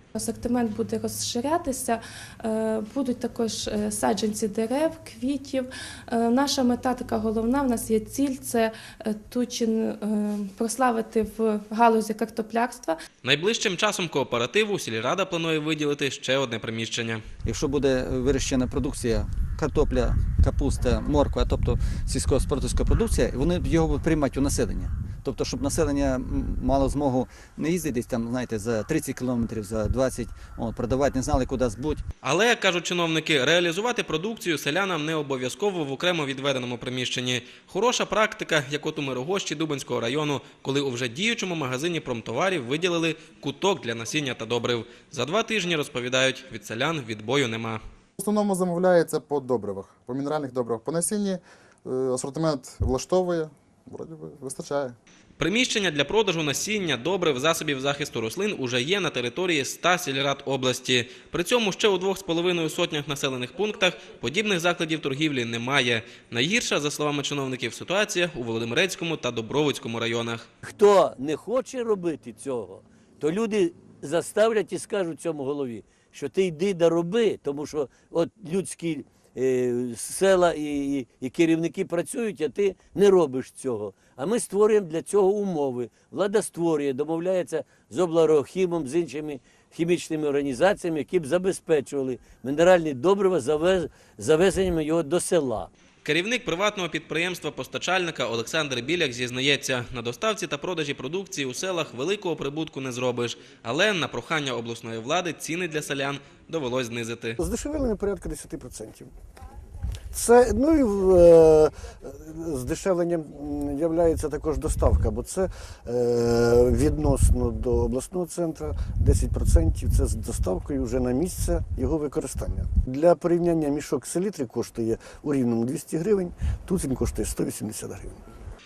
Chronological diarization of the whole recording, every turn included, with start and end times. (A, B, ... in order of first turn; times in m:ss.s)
0:00.1-0:13.0 A
0:13.2-0:17.2 B
0:17.4-0:32.0 C
0:32.2-0:47.8 B
0:48.2-0:55.0 D
0:55.4-1:10.4 B
1:10.6-1:35.7 E
1:36.0-1:47.4 B
1:47.4-1:49.1 F
1:50.1-2:08.2 F